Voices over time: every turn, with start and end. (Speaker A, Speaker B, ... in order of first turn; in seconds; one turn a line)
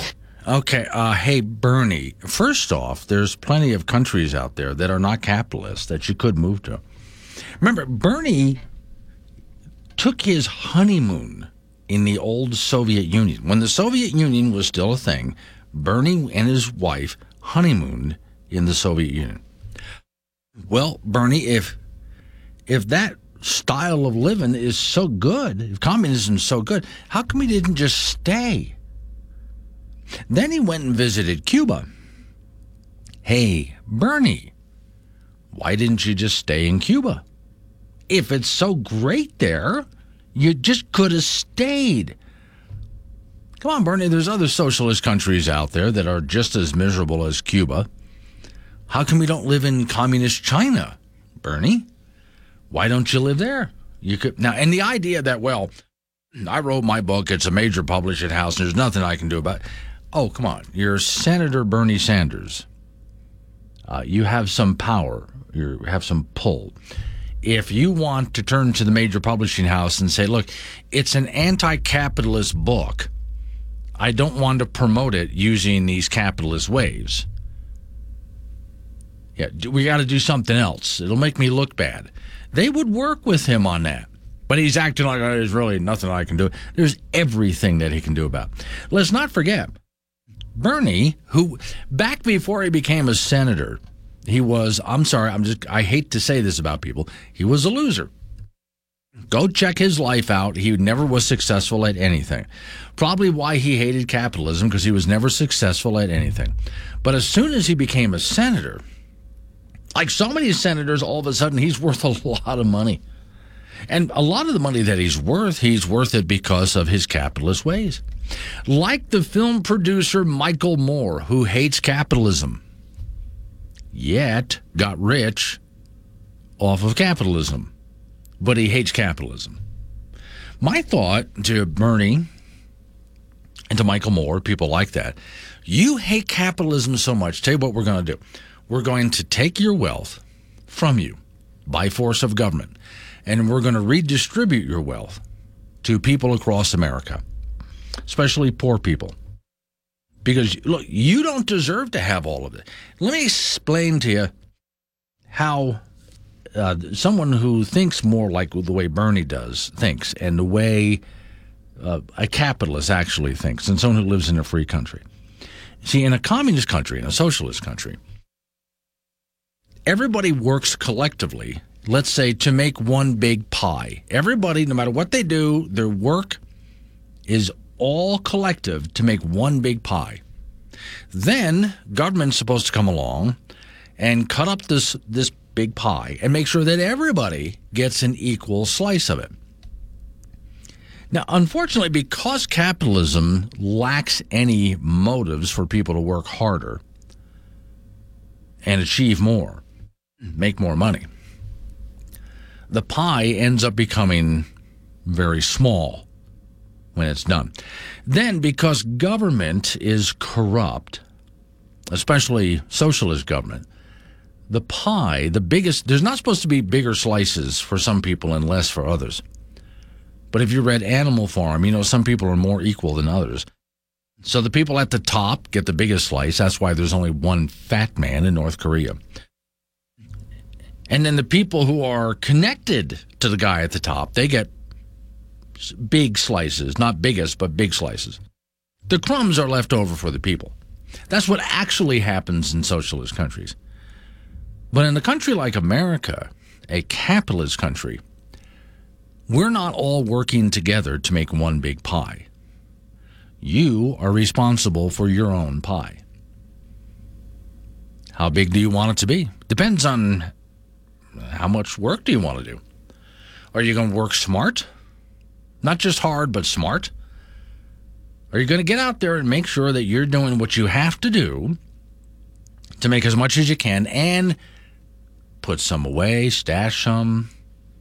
Speaker A: 0.5-6.8
Speaker A: 7.6-8.6
Speaker A: 10.0-19.4
Speaker A: 20.7-21.8
Speaker A: 22.7-28.8
Speaker A: 30.3-31.9
Speaker A: 33.2-34.5
Speaker A: 35.5-37.2
Speaker A: 38.1-42.2
Speaker A: 43.6-47.9
Speaker A: 48.9-51.9
Speaker A: 52.7-55.7
Speaker A: 56.4-62.7
Speaker A: 63.9-66.8
Speaker A: 67.4-73.1
Speaker A: 74.0-77.3
Speaker A: 79.4-89.7
Speaker A: 90.5-98.1
Speaker A: 99.3-108.8
Speaker A: 109.9-113.0
Speaker A: 113.9-118.0
Speaker A: 118.7-122.6
Speaker A: 123.9-125.6
Speaker A: 126.6-127.7
Speaker A: 128.4-129.6
Speaker A: 130.6-132.3
Speaker A: 133.7-145.2
Speaker A: 145.8-147.2
Speaker A: 148.1-149.2
Speaker A: 150.2-154.3
Speaker A: 155.3-155.8
Speaker A: 156.6-161.0
Speaker A: 161.8-165.0
Speaker A: 165.8-168.0
Speaker A: 169.9-176.4
Speaker A: 177.3-180.2
Speaker A: 181.1-183.4
Speaker A: 184.0-189.3
Speaker A: 191.1-196.8
Speaker A: 198.6-199.6
Speaker A: 200.3-201.1
Speaker A: 202.7-204.5
Speaker A: 205.1-206.1
Speaker A: 206.9-207.5
Speaker A: 208.1-211.0
Speaker A: 211.9-213.7
Speaker A: 214.5-219.2
Speaker A: 220.3-223.5
Speaker A: 224.2-229.0
Speaker A: 230.9-234.5
Speaker A: 235.6-238.2
Speaker A: 238.9-240.6
Speaker A: 241.1-243.6
Speaker A: 244.7-248.0
Speaker A: 249.3-252.3
Speaker A: 253.4-256.0
Speaker A: 258.1-260.3
Speaker A: 261.2-262.6
Speaker A: 263.5-264.7
Speaker A: 265.6-266.9
Speaker A: 268.3-271.6
Speaker A: 272.8-274.4
Speaker A: 275.4-277.3